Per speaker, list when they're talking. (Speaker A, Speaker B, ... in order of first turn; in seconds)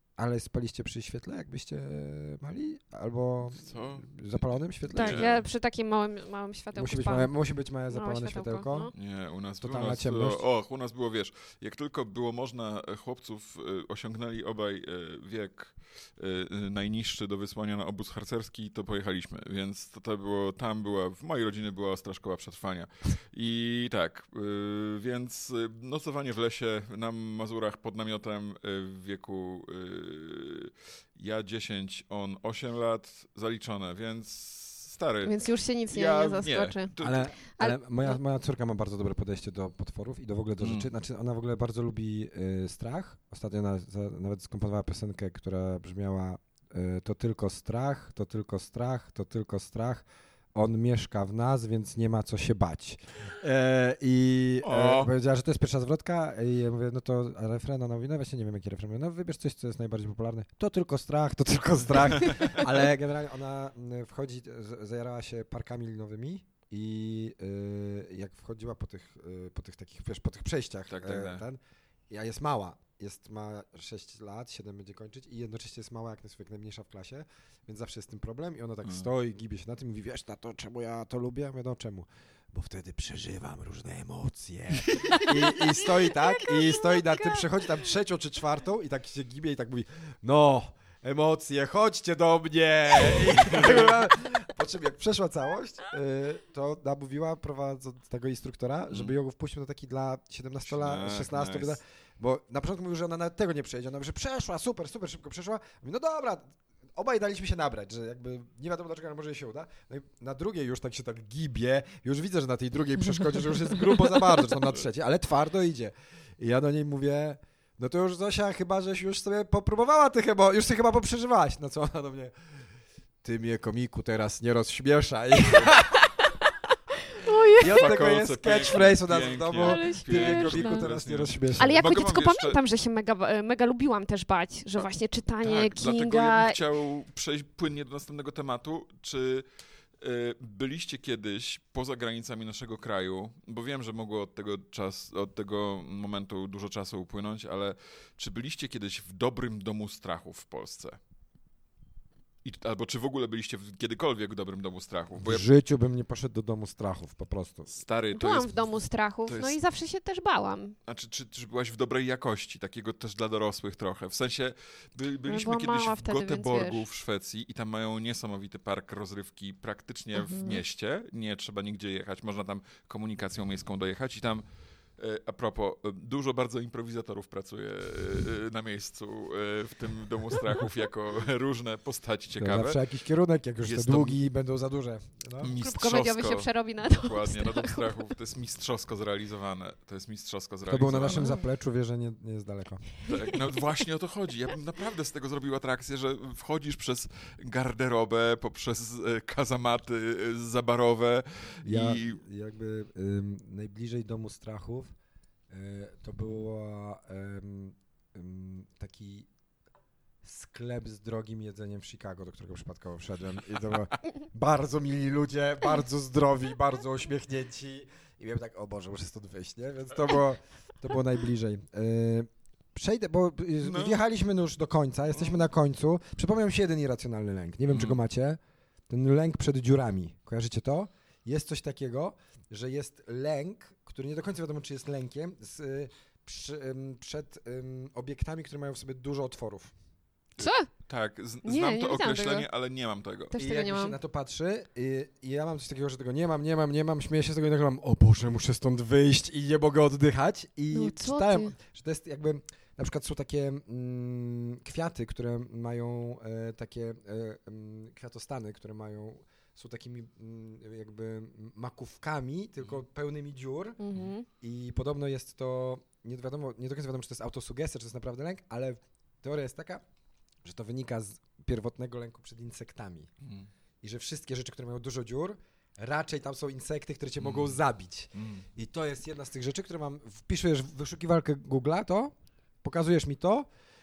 Speaker A: 0.2-5.3, 6.7-8.9, 9.6-10.4, 37.0-122.3, 123.2-126.0, 127.6-131.8, 155.2-157.7, 182.4-185.5, 190.7-192.9, 201.6-204.9, 205.5-209.3, 210.2-228.4, 228.9-239.7, 243.3-263.8, 264.4-269.8, 270.4-273.1, 273.8-283.5
Speaker B: 3.5-4.2, 5.0-5.5, 8.9-37.3, 40.6-40.9, 54.6-55.1, 70.9-71.4, 93.1-94.0, 100.6-101.8, 127.6-132.6, 135.4-139.5, 140.0-151.0, 152.4-155.4, 157.7-158.5, 159.3-159.6, 160.9-174.4, 175.0-182.8, 183.6-184.2, 185.4-191.3, 193.1-202.2, 223.6-224.0, 225.1-225.4, 227.7-228.0, 240.4-243.3, 273.2-273.5, 277.2-277.6, 278.1-278.4
Speaker C: 4.9-7.3, 7.9-8.9, 35.2-38.2, 127.1-127.8, 129.6-130.9, 131.6-136.6, 158.1-160.8, 165.3-166.8, 170.1-170.6, 185.6-187.9, 191.1-191.4, 240.4-240.7, 241.4-242.5, 243.3-244.0, 250.7-251.5, 263.8-264.3